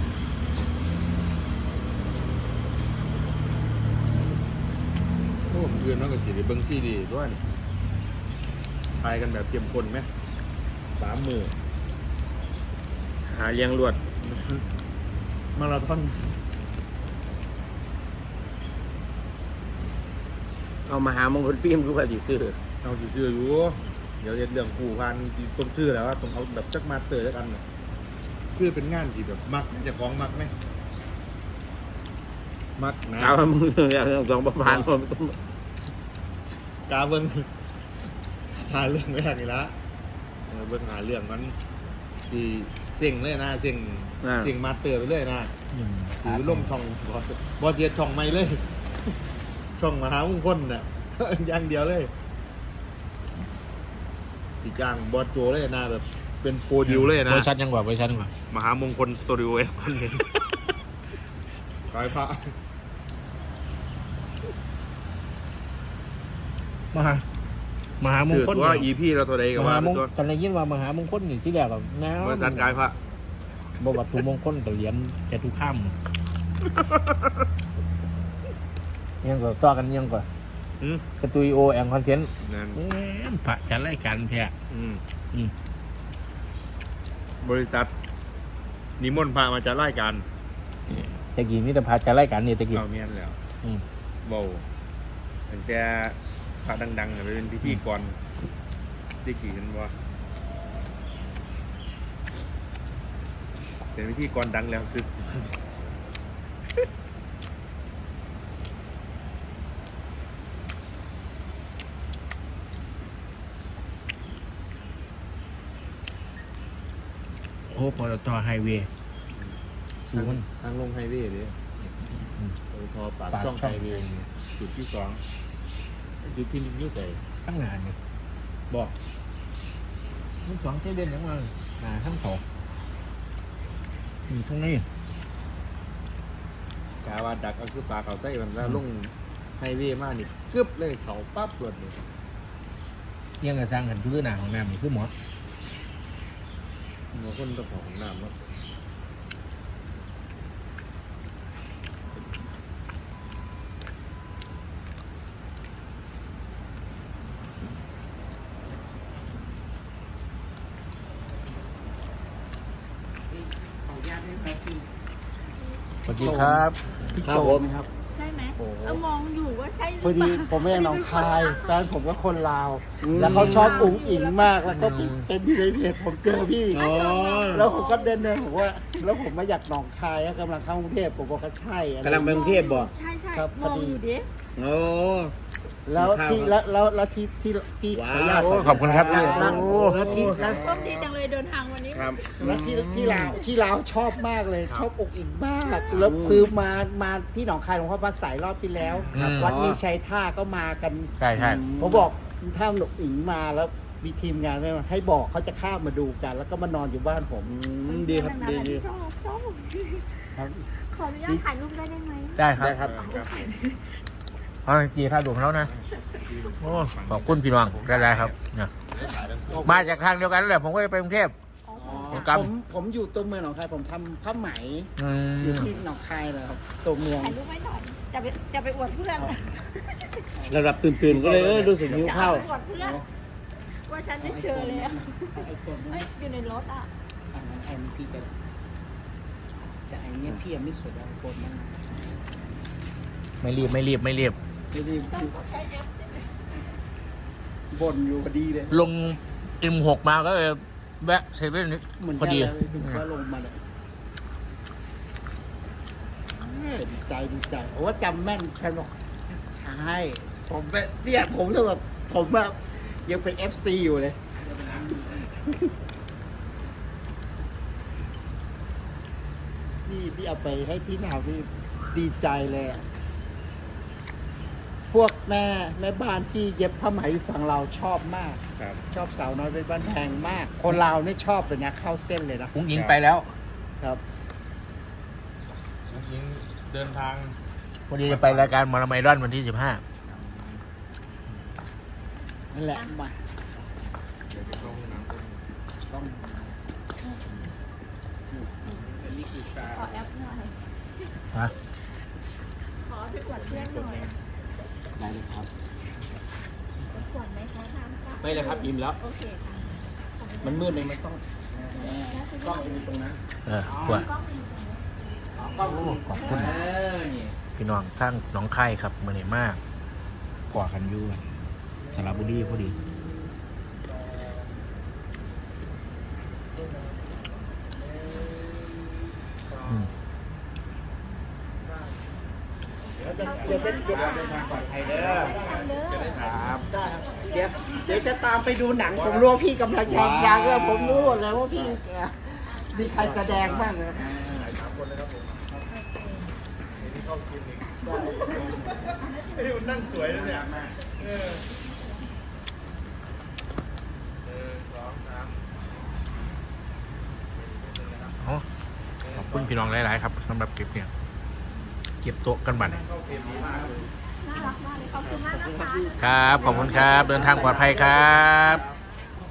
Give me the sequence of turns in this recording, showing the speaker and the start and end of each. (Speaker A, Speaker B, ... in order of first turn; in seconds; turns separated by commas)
Speaker A: 5.5-7.4, Speaker A: 9.0-10.1, Speaker A: 11.0-11.5, Speaker B: 13.2-14.0, Speaker A: 14.2-14.6, Speaker A: 15.6-16.4, Speaker B: 20.9-22.6, Speaker A: 22.8-27.6, Speaker A: 28.5-30.5, Speaker A: 32.8-33.5, Speaker B: 33.2-35.4, Speaker A: 34.6-34.9, Speaker A: 36.9-37.5, Speaker A: 38.5-39.8, Speaker A: 40.5-41.6, Speaker A: 42.3-45.5, Speaker B: 44.2-44.5, Speaker C: 45.7-46.7, Speaker A: 46.2-48.6, Speaker A: 49.8-52.1, Speaker A: 54.6-57.5, Speaker C: 56.9-58.3, Speaker A: 58.5-60.3, Speaker A: 61.9-62.5, Speaker C: 66.9-67.2, Speaker C: 68.0-68.9, Speaker A: 68.3-70.1, Speaker C: 69.5-72.8, Speaker A: 72.2-73.0, Speaker C: 73.8-76.0, Speaker A: 76.8-77.0, Speaker C: 79.2-80.3, Speaker C: 81.2-84.5, Speaker A: 82.4-82.8, Speaker A: 84.7-85.0, Speaker A: 87.4-87.9, Speaker A: 89.0-90.3, Speaker C: 91.0-92.8, Speaker A: 92.7-93.4, Speaker A: 94.2-94.7, Speaker A: 95.5-98.2, Speaker A: 99.2-99.9, Speaker A: 104.0-105.5, Speaker C: 117.7-118.9, Speaker C: 120.1-120.4, Speaker A: 120.1-121.7, Speaker C: 122.2-122.6, Speaker A: 122.7-125.2, Speaker C: 123.3-124.3, Speaker A: 126.2-127.2, Speaker C: 127.4-128.0, Speaker C: 130.4-132.4, Speaker C: 134.3-134.9, Speaker A: 137.0-142.0, Speaker C: 143.4-145.1, Speaker A: 147.1-148.3, Speaker D: 163.3-164.9, Speaker C: 166.1-167.2, Speaker D: 166.1-167.9, Speaker B: 167.2-167.7, Speaker E: 168.2-171.8, Speaker D: 168.6-169.0, Speaker D: 170.0-176.9, Speaker B: 173.0-173.9, Speaker C: 173.2-173.7, Speaker E: 173.5-174.6, Speaker C: 174.7-175.3, Speaker B: 176.7-177.7, Speaker E: 176.7-179.1, Speaker D: 177.5-182.7, Speaker B: 182.0-182.9, Speaker E: 182.3-184.3, Speaker D: 183.3-184.0, Speaker B: 184.6-185.3, Speaker D: 185.9-191.0, Speaker B: 186.0-186.5, Speaker B: 187.9-191.1, Speaker C: 188.3-190.0, Speaker E: 190.3-192.4, Speaker B: 191.9-193.4, Speaker D: 192.4-207.6, Speaker B: 195.9-196.5, Speaker A: 199.0-199.3, Speaker C: 199.1-199.6, Speaker B: 199.3-199.8, Speaker C: 201.2-201.6, Speaker B: 201.3-202.1, Speaker B: 207.4-208.9, Speaker E: 207.8-210.2, Speaker E: 210.8-213.8, Speaker C: 212.4-212.8, Speaker B: 212.6-213.0, Speaker A: 212.8-213.6, Speaker C: 214.7-215.7, Speaker A: 215.6-218.4, Speaker C: 216.6-218.7, Speaker A: 218.9-220.0, Speaker C: 219.6-221.3, Speaker E: 221.7-222.2, Speaker D: 221.8-227.4, Speaker C: 222.1-222.5, Speaker C: 225.0-225.7, Speaker E: 227.2-230.2, Speaker D: 230.4-233.1, Speaker B: 230.5-232.5, Speaker E: 231.8-233.0, Speaker E: 233.7-236.9, Speaker D: 234.2-236.1, Speaker D: 237.3-238.3, Speaker D: 239.9-241.9, Speaker C: 243.4-244.4, Speaker D: 244.7-245.3, Speaker E: 245.1-246.3, Speaker D: 247.7-248.8, Speaker C: 248.7-253.0, Speaker D: 252.0-253.6, Speaker D: 256.3-264.2, Speaker D: 265.0-265.5, Speaker D: 269.9-272.8, Speaker D: 274.9-282.6, Speaker C: 282.5-283.3, Speaker A: 282.7-283.0, Speaker A: 285.9-287.4, Speaker C: 287.9-289.8, Speaker A: 288.0-288.6, Speaker D: 292.5-293.2, Speaker A: 294.3-295.4, Speaker D: 295.9-296.6, Speaker D: 298.3-298.8, Speaker A: 299.1-299.6, Speaker E: 299.5-300.6, Speaker E: 302.8-304.2, Speaker A: 303.4-304.1, Speaker B: 305.0-305.5, Speaker E: 306.8-310.8, Speaker B: 308.2-309.0, Speaker B: 310.4-313.2, Speaker E: 311.8-313.0, Speaker C: 313.5-314.1, Speaker E: 313.8-316.7, Speaker D: 315.4-316.4, Speaker B: 315.6-317.4, Speaker C: 315.7-316.6, Speaker C: 317.6-319.6, Speaker C: 320.5-321.2, Speaker C: 321.9-322.8, Speaker A: 329.4-329.9, Speaker C: 329.7-329.9, Speaker A: 332.9-336.7, Speaker D: 333.0-335.6, Speaker E: 333.1-336.4, Speaker B: 336.2-336.7, Speaker D: 336.6-344.4, Speaker E: 337.1-337.9, Speaker A: 338.9-339.4, Speaker B: 339.9-341.2, Speaker E: 342.6-342.9, Speaker B: 343.0-344.4, Speaker A: 344.3-345.6, Speaker E: 345.7-346.3, Speaker A: 346.8-351.4, Speaker A: 354.2-355.4, Speaker A: 357.3-358.2, Speaker A: 359.1-359.7, Speaker C: 359.1-360.9, Speaker C: 362.0-362.8, Speaker A: 362.5-363.9, Speaker D: 363.1-363.8, Speaker E: 364.2-367.4, Speaker D: 365.1-368.1, Speaker C: 366.0-368.6, Speaker A: 367.7-368.4